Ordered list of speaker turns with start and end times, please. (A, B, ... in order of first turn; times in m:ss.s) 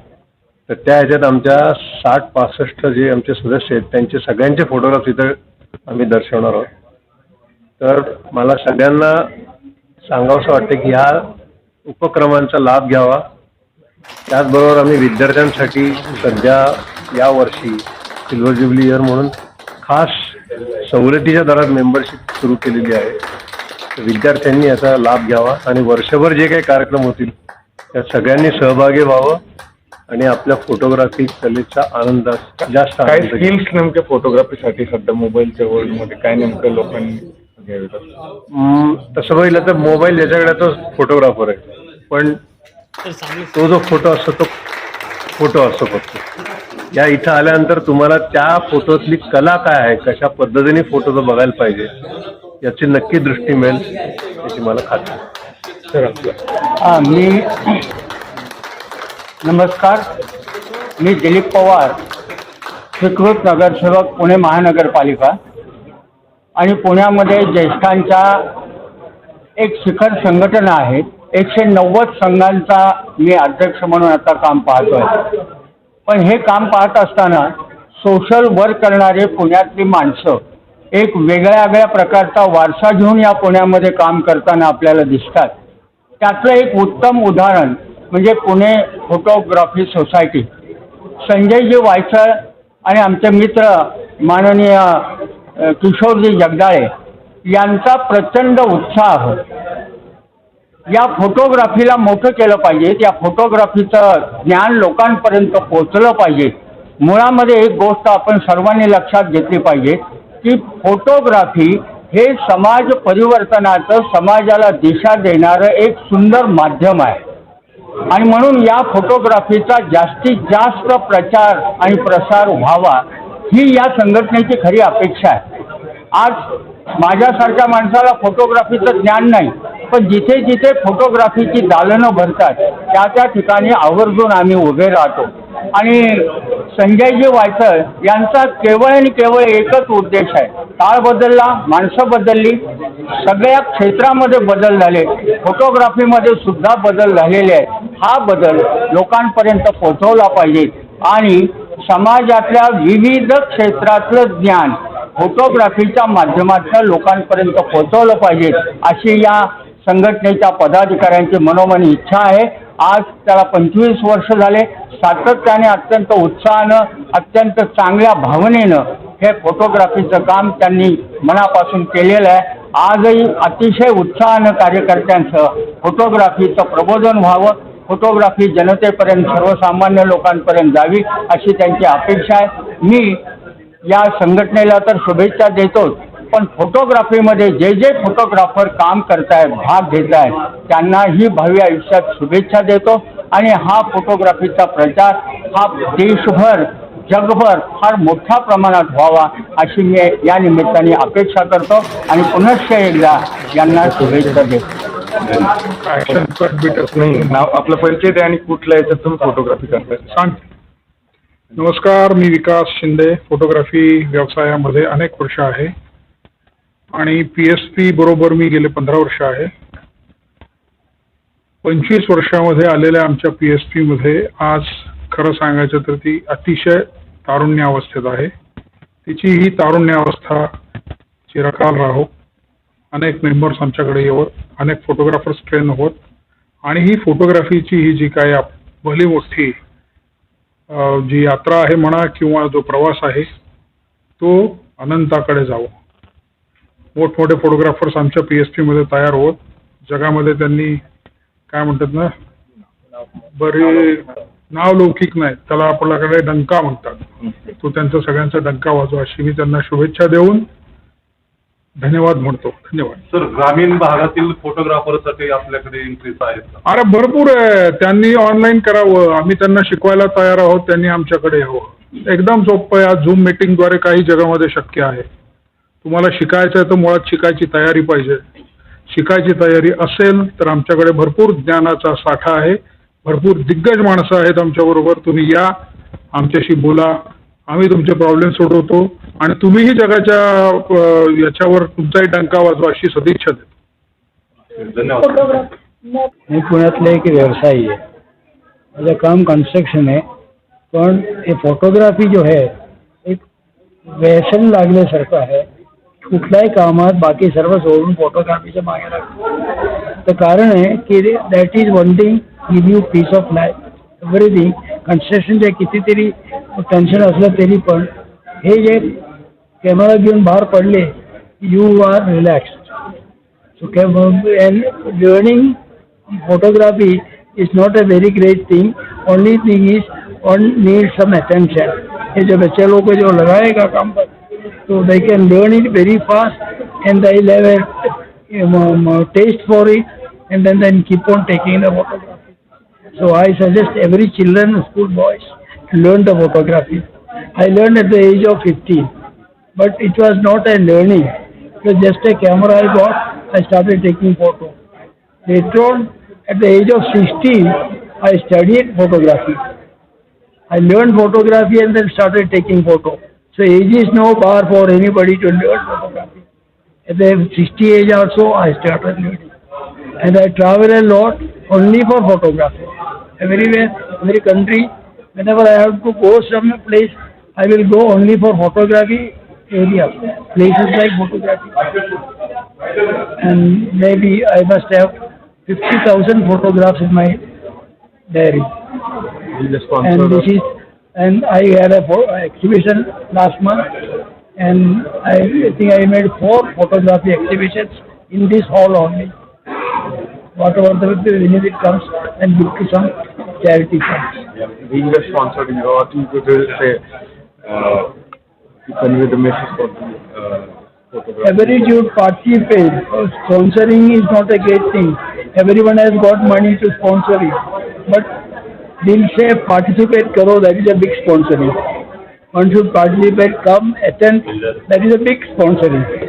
0:00.7-0:06.7 A
0:07.8-0:09.3 A
0:10.1-0:11.3 A
0:11.9-0:13.3 A
0:14.3-0:20.3 A
0:20.8-0:23.2 A
0:24.0-0:27.3 A
0:27.9-0:29.4 A
0:30.1-0:33.6 A
0:32.6-0:38.1 B
0:38.5-0:42.4 A
0:43.5-0:44.5 A
0:45.4-0:46.2 A
0:46.9-0:51.9 A
0:52.6-0:53.9 A
0:54.4-0:55.2 A
0:55.9-0:56.3 B
0:56.8-0:57.8 C
0:59.4-1:00.0 C
1:01.0-1:02.0 C
1:03.0-1:05.4 C
1:06.6-1:08.5 C
1:09.6-1:15.1 C
1:16.1-1:20.4 C
1:20.9-1:25.5 C
1:26.2-1:30.5 C
1:31.2-1:36.9 C
1:37.5-1:39.4 C
1:40.9-1:57.2 C
1:58.1-2:05.4 C
2:06.1-2:06.4 C
2:07.0-2:22.6 C
2:23.2-3:03.2 C
3:03.9-3:24.6 C
3:23.8-3:24.5 B
3:25.9-3:27.4 D
3:26.7-3:30.1 B
3:30.1-3:30.4 D
3:31.6-3:35.7 D
3:36.9-3:39.5 D
3:41.6-3:48.3 D
3:49.1-3:50.5 D
3:51.3-3:52.1 D
3:52.9-3:56.0 D
3:56.6-3:59.6 D
4:00.7-4:03.3 D
4:04.2-4:05.7 D
4:07.0-4:10.8 D
4:11.5-4:12.1 D
4:13.4-4:20.5 D
4:21.8-4:23.0 D
4:23.1-4:26.6 E
4:26.6-4:35.1 D
4:35.8-4:38.2 D
4:38.9-4:45.5 D
4:46.1-4:46.9 D
4:47.5-4:53.5 D
4:56.3-4:57.8 F
4:58.8-5:00.0 F
5:00.7-5:02.5 F
5:03.9-5:05.5 F
5:06.0-5:09.1 F
5:10.0-5:19.0 F
5:19.6-5:22.7 F
5:23.6-5:34.1 F
5:34.6-5:42.4 F
5:42.9-5:48.9 F
5:49.6-5:54.6 F
5:55.2-5:59.4 F
6:00.5-6:06.2 F
6:06.9-6:09.3 F
6:10.0-6:21.6 F
6:23.2-6:27.2 F
6:28.1-6:28.5 F
6:29.3-6:30.3 B
6:29.8-6:33.7 F
6:34.4-6:39.2 F
6:40.4-6:44.1 F
6:44.6-6:46.8 B
6:47.4-6:48.0 B
6:48.7-6:51.8 B
6:51.2-6:58.1 F
6:58.8-7:01.6 F
7:02.3-7:06.0 F